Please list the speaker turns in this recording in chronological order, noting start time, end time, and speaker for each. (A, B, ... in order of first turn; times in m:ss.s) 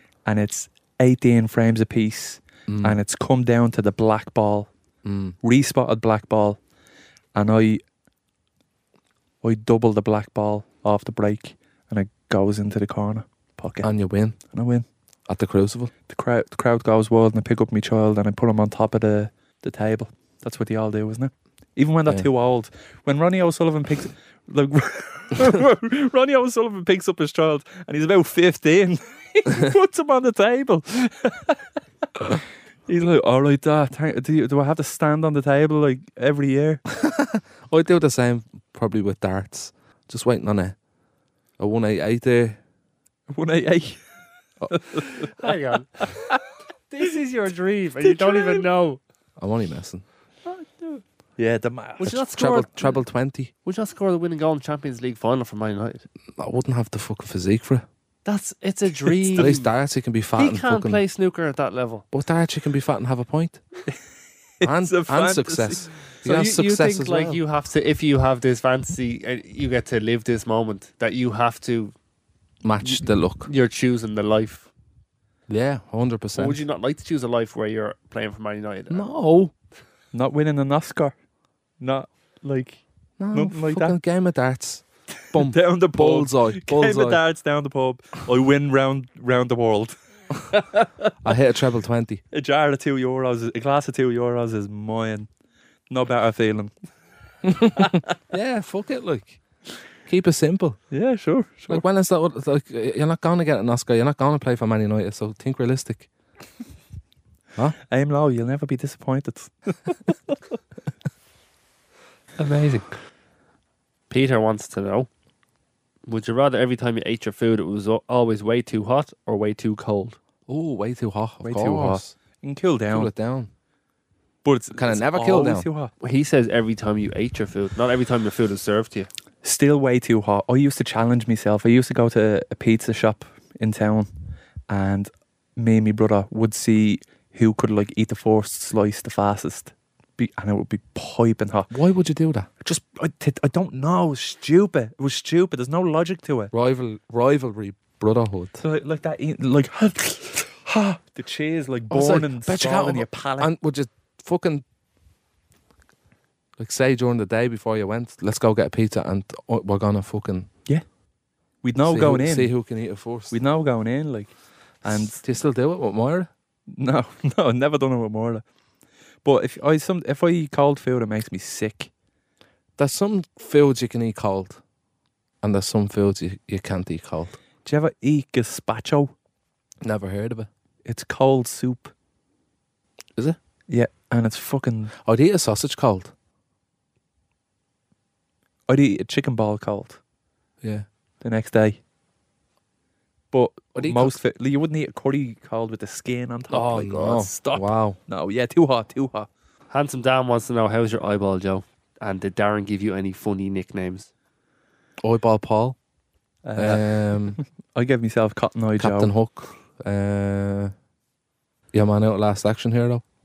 0:00.2-0:04.7 A
0:02.7-0:03.0 B
0:05.0-0:05.4 B
0:05.4-0:06.6 A
0:07.3-0:07.8 A
0:09.4-0:13.9 A
0:13.8-0:14.4 B
0:14.5-0:14.8 A
0:15.3-0:15.9 B
0:16.1-0:31.6 A
0:32.3-0:36.8 A
0:37.0-0:40.8 B
0:41.6-0:42.6 B
0:43.3-0:44.0 A
0:44.6-0:45.1 A
0:45.1-0:46.3 C
0:46.9-0:49.0 C
0:48.0-0:48.6 A
0:49.4-0:50.0 B
0:50.4-0:52.2 A
0:52.0-0:53.0 C
0:52.0-0:53.5 B
0:53.6-0:56.0 C
0:56.4-0:57.8 B
0:58.2-0:59.7 C
0:59.3-1:01.0 B
1:00.3-1:02.0 C
1:02.1-1:03.6 B
1:04.6-1:05.9 A
1:04.6-1:07.4 B
1:06.2-1:11.9 C
1:12.6-1:13.5 B
1:13.4-1:14.7 C
1:15.5-1:16.6 B
1:16.3-1:19.2 C
1:18.9-1:19.5 B
1:20.1-1:21.1 A
1:21.8-1:24.0 A
1:23.2-1:27.2 B
1:25.3-1:31.1 A
1:31.2-1:32.2 B
1:32.3-1:35.3 A
1:35.9-1:36.7 A
1:37.5-1:39.4 B
1:37.6-1:38.1 A
1:40.1-1:40.8 B
1:40.9-1:41.8 A
1:41.7-1:46.1 B
1:47.9-1:50.4 A
1:52.4-1:52.9 C
1:54.1-1:55.1 C
1:56.0-2:00.2 C
2:00.5-2:02.1 B
2:01.4-2:03.1 A
2:02.9-2:03.5 B
2:04.4-2:05.9 A
2:04.7-2:05.7 B
2:06.0-2:09.1 C
2:09.4-2:14.1 A
2:14.7-2:21.7 A
2:21.7-2:22.5 B
2:22.6-2:26.5 A
2:26.5-2:28.6 B
2:28.6-2:33.5 A
2:31.9-2:34.6 B
2:36.6-2:40.5 B
2:41.6-2:42.6 A
2:41.8-2:43.4 B
2:43.3-2:44.3 A
2:44.8-2:45.2 A
2:44.8-2:46.3 B
2:46.7-2:48.4 A
2:49.2-2:51.9 A
2:52.8-2:54.6 B
2:55.4-2:57.4 B
2:57.6-2:59.1 A
2:59.8-3:00.5 B
3:00.8-3:01.9 A
3:03.7-3:04.9 A
3:05.0-3:06.1 B
3:08.7-3:10.0 A
3:11.2-3:11.8 A
3:13.3-3:19.3 A
3:13.7-3:14.2 B
3:16.5-3:18.0 B
3:19.7-3:24.1 C
3:25.0-3:25.8 B
3:26.4-3:29.1 A
3:26.6-3:27.4 B
3:28.8-3:30.7 B
3:31.7-3:33.0 B